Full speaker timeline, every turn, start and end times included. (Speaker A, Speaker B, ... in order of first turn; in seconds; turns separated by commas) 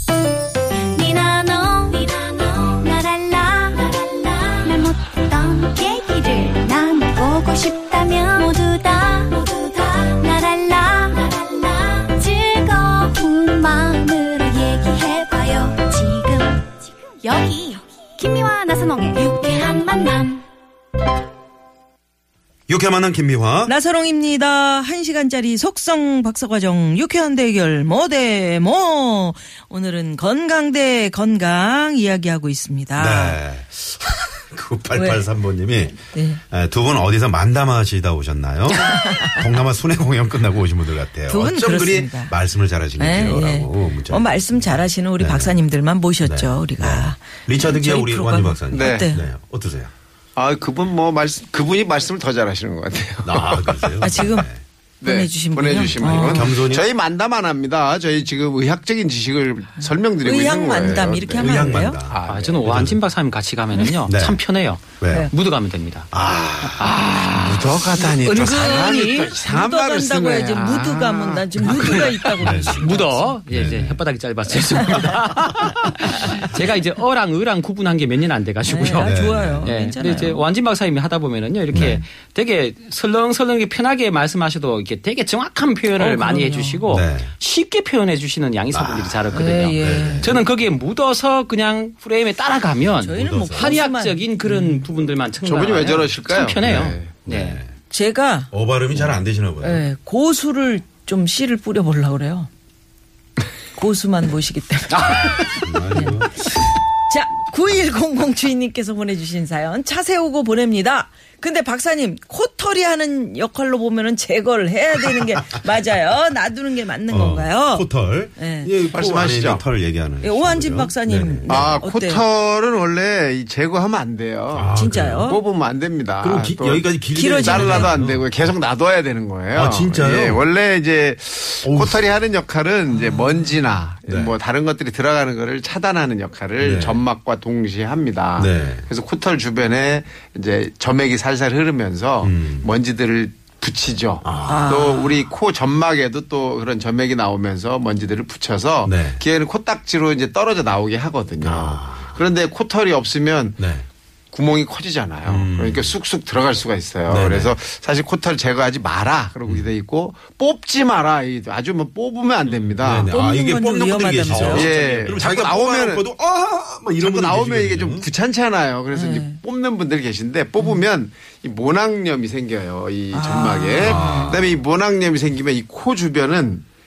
Speaker A: 0.8-20.4, Speaker B: 22.7-23.7, Speaker C: 23.6-33.4, Speaker B: 33.0-45.6, Speaker C: 34.9-35.3, Speaker C: 36.1-36.4, Speaker C: 38.8-39.5, Speaker C: 41.3-42.3, Speaker C: 43.0-49.2, Speaker B: 46.2-49.9, Speaker D: 48.7-49.1, Speaker D: 50.4-54.1, Speaker B: 53.2-54.6, Speaker C: 54.0-54.5, Speaker D: 55.0-62.9, Speaker C: 55.0-56.6, Speaker B: 55.8-56.8, Speaker C: 59.8-62.0, Speaker B: 61.4-63.0, Speaker E: 62.3-66.1, Speaker B: 64.1-64.4, Speaker B: 65.0-65.3, Speaker B: 66.1-67.0, Speaker E: 66.8-69.4, Speaker D: 67.4-72.3, Speaker B: 68.3-68.7, Speaker C: 68.5-73.4, Speaker B: 71.6-74.0, Speaker E: 72.2-97.6, Speaker C: 78.6-80.5, Speaker B: 78.9-79.8, Speaker B: 81.7-82.0, Speaker C: 86.0-86.8, Speaker B: 86.9-87.3, Speaker B: 88.7-90.3, Speaker C: 89.3-90.4, Speaker C: 93.0-94.9, Speaker B: 93.1-93.8, Speaker D: 95.4-97.2, Speaker B: 96.6-97.7, Speaker C: 97.9-98.5, Speaker B: 98.5-99.8, Speaker C: 99.6-102.5, Speaker C: 103.8-118.7, Speaker B: 105.0-106.5, Speaker B: 117.1-121.8, Speaker D: 118.9-119.7, Speaker C: 120.2-122.2, Speaker D: 121.5-126.9, Speaker B: 124.5-125.4, Speaker C: 124.7-125.4, Speaker B: 126.2-128.6, Speaker C: 127.1-128.0, Speaker D: 127.4-153.6, Speaker B: 129.5-130.4, Speaker B: 131.6-132.2, Speaker C: 132.9-133.6, Speaker B: 134.1-134.3, Speaker B: 136.6-137.0, Speaker B: 138.4-138.9, Speaker B: 142.2-142.7, Speaker B: 144.2-144.8, Speaker C: 144.4-145.2, Speaker B: 148.8-149.2, Speaker B: 151.4-152.2, Speaker B: 153.6-153.8, Speaker D: 154.3-163.1, Speaker B: 155.3-155.9, Speaker B: 157.1-157.6, Speaker B: 159.5-159.7, Speaker E: 162.4-162.8, Speaker B: 162.8-168.1, Speaker C: 163.1-164.7, Speaker E: 164.3-165.2, Speaker D: 164.5-166.0, Speaker D: 167.0-176.6, Speaker C: 168.9-169.4, Speaker C: 170.6-170.9, Speaker C: 173.1-174.5, Speaker B: 173.8-174.6